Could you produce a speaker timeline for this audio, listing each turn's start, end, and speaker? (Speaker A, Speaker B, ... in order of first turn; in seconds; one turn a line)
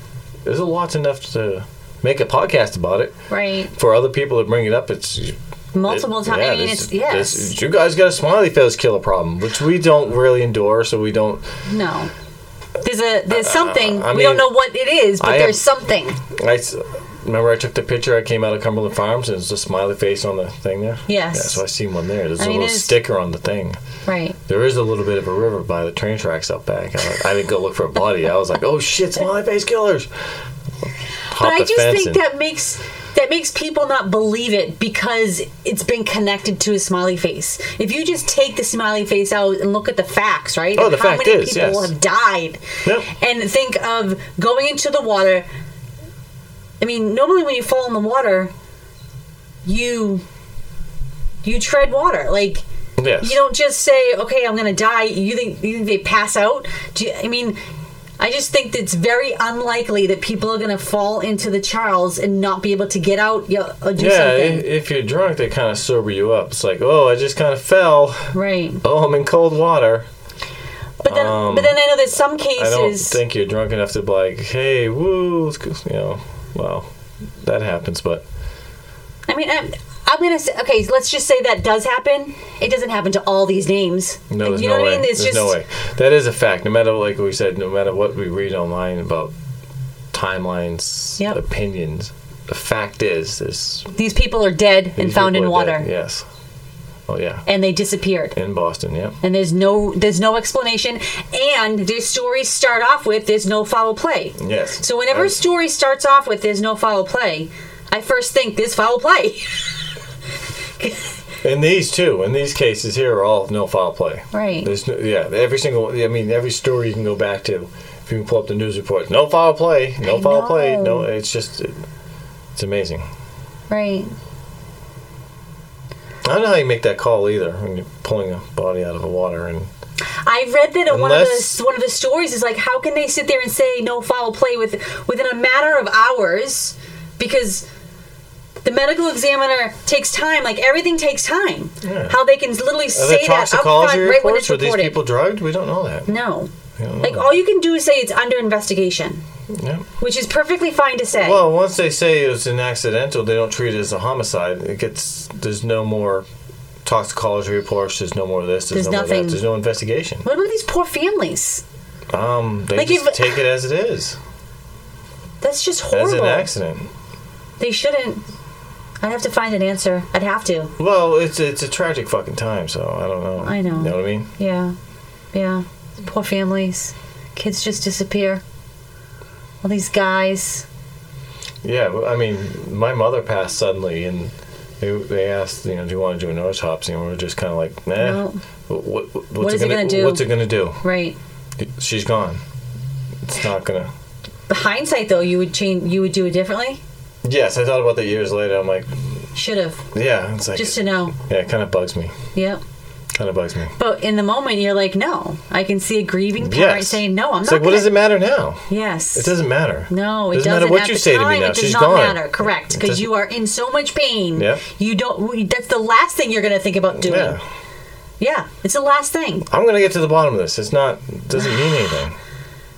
Speaker A: 0.4-3.2
Speaker B: 3.3-3.7
Speaker A: 3.7-11.5
Speaker B: 5.7-7.5
Speaker B: 11.7-12.1
Speaker B: 12.8-16.2
Speaker A: 13.3-14.6
Speaker A: 15.2-15.7
Speaker A: 16.3-23.8
Speaker B: 21.1-21.6
Speaker B: 22.4-23.0
Speaker B: 24.1-24.4
Speaker A: 24.5-30.1
Speaker A: 31.3-32.2
Speaker B: 31.3-45.5
Speaker A: 40.7-41.9
Speaker B: 46.8-48.5
Speaker B: 49.6-50.2
Speaker B: 51.4-52.6
Speaker A: 53.0-53.4
Speaker B: 53.2-57.6
Speaker B: 58.2-64.7
Speaker A: 64.0-70.1
Speaker B: 68.3-68.8
Speaker A: 71.0-71.8
Speaker B: 71.0-73.2
Speaker A: 72.5-76.9
Speaker A: 77.4-78.2
Speaker B: 79.3-85.6
Speaker A: 84.3-89.3
Speaker A: 90.1-93.9
Speaker B: 94.0-95.9
Speaker A: 95.0-96.2
Speaker A: 97.1-97.5
Speaker B: 97.5-98.3
Speaker A: 98.3-99.2
Speaker B: 99.2-109.8
Speaker A: 104.4-105.4
Speaker B: 110.8-111.1
Speaker A: 111.4-121.9
Speaker B: 114.3-114.7
Speaker B: 120.0-121.1
Speaker A: 122.6-123.1
Speaker B: 123.7-124.1
Speaker A: 126.2-129.7
Speaker B: 130.3-137.7
Speaker A: 130.9-131.6
Speaker B: 138.6-145.0
Speaker A: 141.8-142.2
Speaker A: 142.9-146.1
Speaker B: 146.1-149.2
Speaker A: 146.8-147.3
Speaker A: 149.5-149.9
Speaker B: 150.0-151.4
Speaker A: 151.2-156.3
Speaker A: 156.8-160.2
Speaker B: 158.7-159.4
Speaker B: 160.2-161.6
Speaker A: 162.1-164.2
Speaker B: 162.8-163.4
Speaker B: 165.4-166.5
Speaker A: 165.9-166.9
Speaker B: 167.6-168.2
Speaker B: 169.0-170.7
Speaker A: 170.8-174.3
Speaker B: 173.4-174.8
Speaker B: 175.3-178.4
Speaker B: 179.6-180.7
Speaker A: 181.6-190.8
Speaker B: 188.0-188.4
Speaker B: 189.4-191.2
Speaker A: 191.6-192.4
Speaker A: 193.2-193.9
Speaker B: 194.5-196.8
Speaker A: 197.2-199.0
Speaker B: 199.3-199.9
Speaker A: 199.9-202.1
Speaker B: 200.5-201.2
Speaker B: 202.3-202.6
Speaker A: 203.1-203.8
Speaker B: 203.8-207.9
Speaker A: 206.4-213.1
Speaker B: 208.7-209.3
Speaker B: 209.9-217.4
Speaker A: 214.4-214.6
Speaker A: 216.9-217.4
Speaker B: 218.2-219.5
Speaker A: 219.5-222.2